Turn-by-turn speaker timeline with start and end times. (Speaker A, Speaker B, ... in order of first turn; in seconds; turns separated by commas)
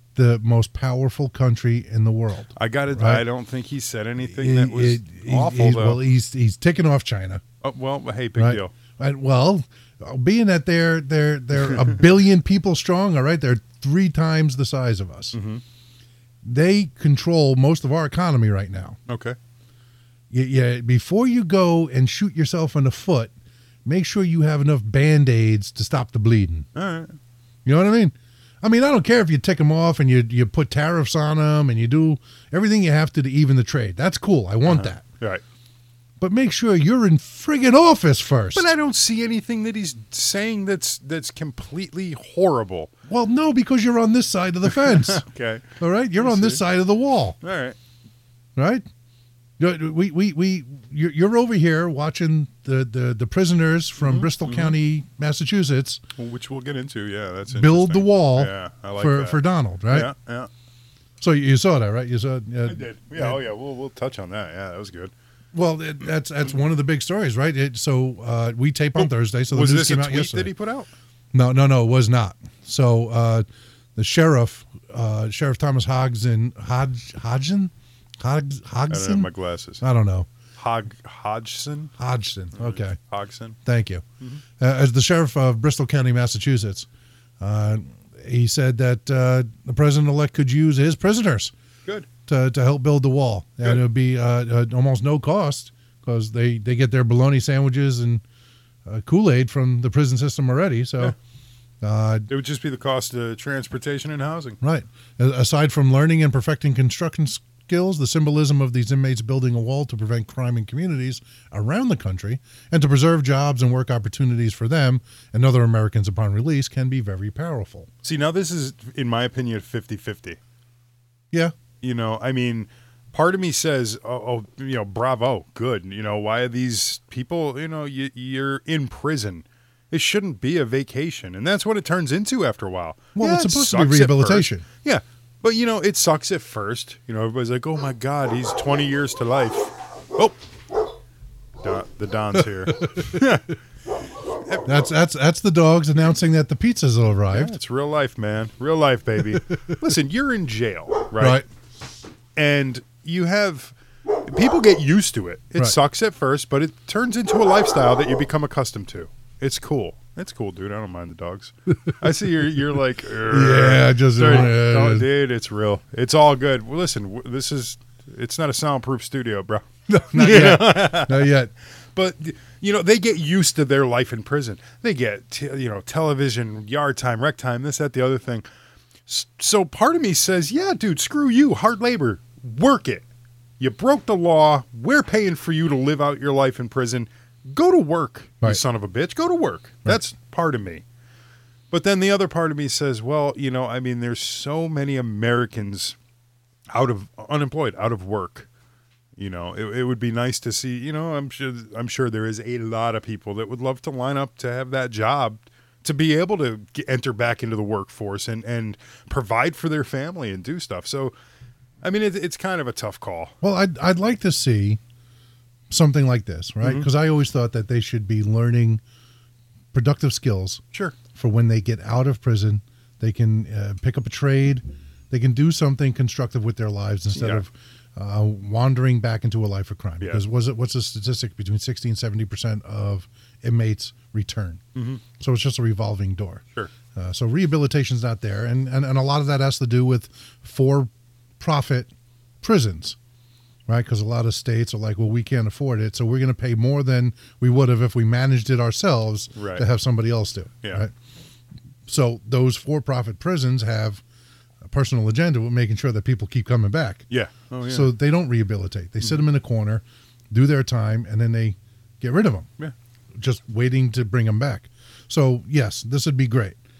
Speaker A: 0.1-3.2, Speaker B: 2.6-6.0, Speaker A: 4.2-7.4, Speaker B: 7.6-8.7, Speaker A: 8.4-15.4, Speaker B: 15.3-15.6, Speaker A: 16.4-19.0, Speaker B: 19.1-19.4, Speaker A: 20.3-23.3, Speaker A: 23.9-26.7, Speaker B: 26.8-27.2, Speaker A: 27.6-35.0, Speaker B: 34.7-35.4, Speaker A: 36.2-38.7, Speaker B: 38.5-42.9, Speaker A: 43.1-45.2, Speaker B: 44.9-46.6, Speaker A: 45.8-47.4, Speaker B: 47.4-47.8, Speaker A: 48.6-48.9, Speaker A: 49.6-56.0, Speaker B: 54.0-54.7, Speaker B: 56.2-60.5, Speaker A: 57.5-60.1, Speaker A: 61.2-63.4, Speaker B: 62.7-65.1, Speaker A: 65.5-70.5, Speaker B: 69.0-70.9, Speaker A: 71.3-80.3, Speaker B: 78.9-79.8, Speaker B: 80.6-81.9, Speaker A: 82.0-83.0, Speaker B: 82.5-83.6, Speaker A: 83.6-84.0, Speaker A: 84.6-86.9, Speaker A: 87.4-91.5, Speaker A: 92.3-98.2, Speaker A: 98.8-101.2, Speaker A: 101.8-102.3, Speaker B: 102.3-104.6, Speaker A: 104.6-117.9, Speaker B: 118.0-120.4, Speaker B: 121.8-140.4, Speaker A: 133.2-134.7, Speaker B: 141.6-143.6, Speaker A: 142.7-143.2, Speaker A: 144.7-147.6, Speaker B: 147.3-151.4, Speaker A: 151.2-151.4, Speaker B: 152.4-171.3, Speaker A: 163.3-165.1, Speaker A: 169.9-171.5, Speaker B: 171.9-178.5, Speaker B: 179.1-183.1, Speaker B: 183.6-190.8, Speaker B: 191.7-196.0, Speaker B: 196.7-198.5, Speaker B: 199.2-211.1, Speaker B: 211.8-213.3, Speaker A: 213.4-214.8, Speaker A: 215.7-218.8, Speaker B: 216.6-216.9, Speaker A: 219.7-220.6, Speaker A: 221.1-234.6, Speaker B: 227.1-227.4, Speaker B: 234.8-235.0, Speaker A: 235.2-236.4, Speaker A: 236.9-241.9, Speaker A: 242.4-243.0, Speaker A: 243.7-250.9, Speaker B: 249.3-249.7, Speaker A: 251.9-254.0, Speaker A: 254.6-257.1, Speaker B: 257.1-257.9, Speaker A: 257.6-262.5, Speaker A: 263.1-266.6